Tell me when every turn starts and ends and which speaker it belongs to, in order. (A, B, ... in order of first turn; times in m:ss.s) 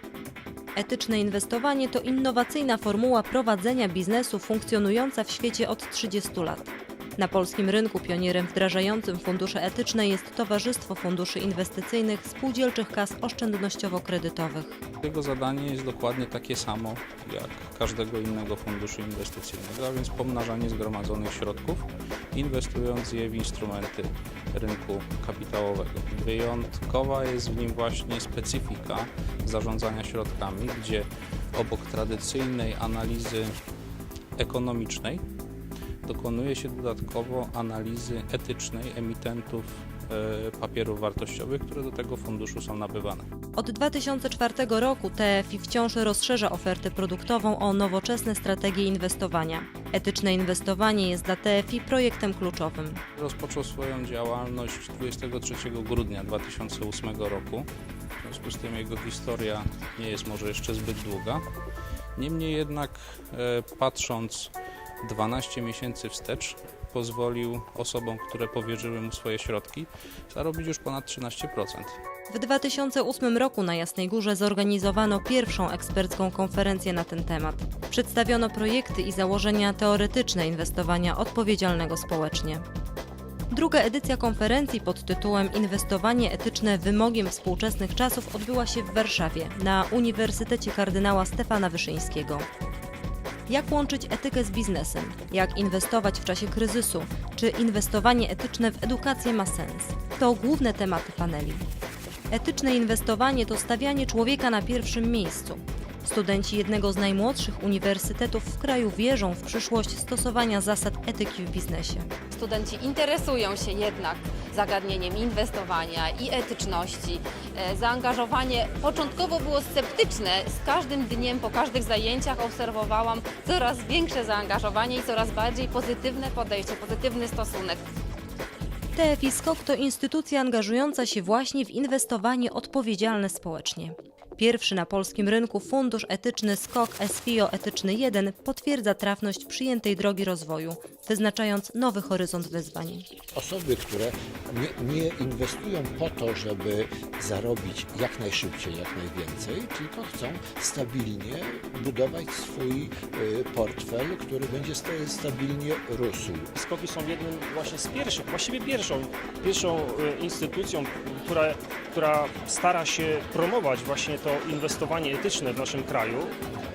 0:00.7-0:14.8 A
0:15.0-0:33.5 B
0:34.4-0:35.2 B
0:36.0-0:43.2 B
0:43.6-0:53.0 A
0:53.2-0:57.7 B
0:58.2-1:01.4 B
1:02.2-1:04.5 B
1:05.0-1:11.9 B
1:12.3-1:22.6 A
1:23.5-1:32.4 A
1:33.5-1:41.6 A
1:42.3-1:52.1 A
1:52.3-2:07.8 C
2:08.9-2:23.1 A
2:23.3-2:36.5 D
2:36.5-2:46.3 E